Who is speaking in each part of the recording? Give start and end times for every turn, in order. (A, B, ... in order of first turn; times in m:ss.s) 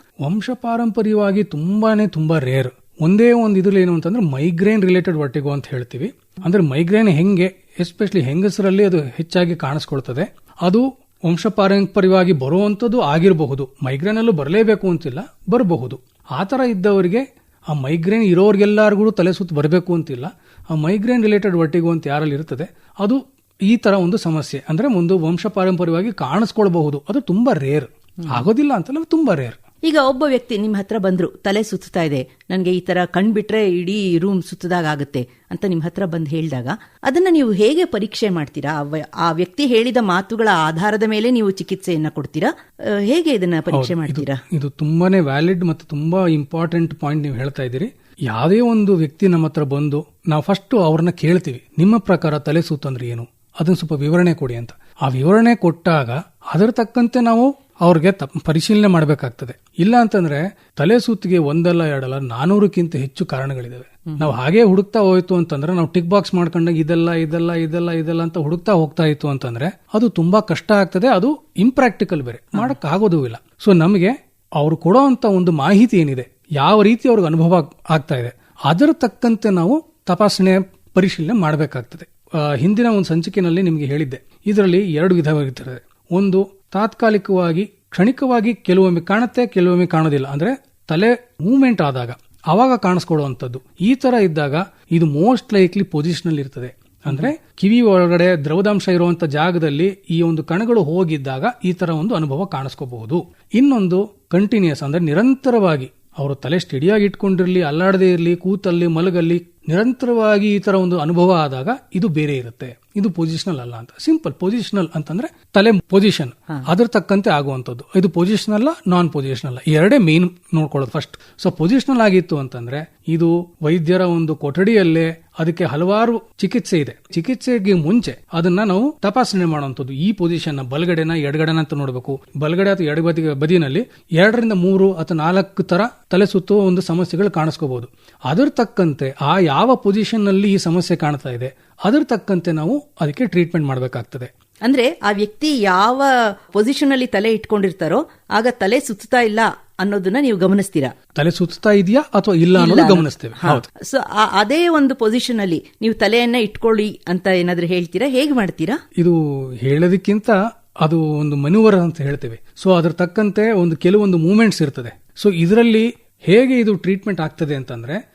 0:00.2-0:29.6 A
0:29.9-0:44.4 B
0:43.7-2:24.3 A
2:24.6-2:30.9 B
2:31.2-2:33.7 A
2:32.6-2:38.8 B
2:39.0-2:48.0 A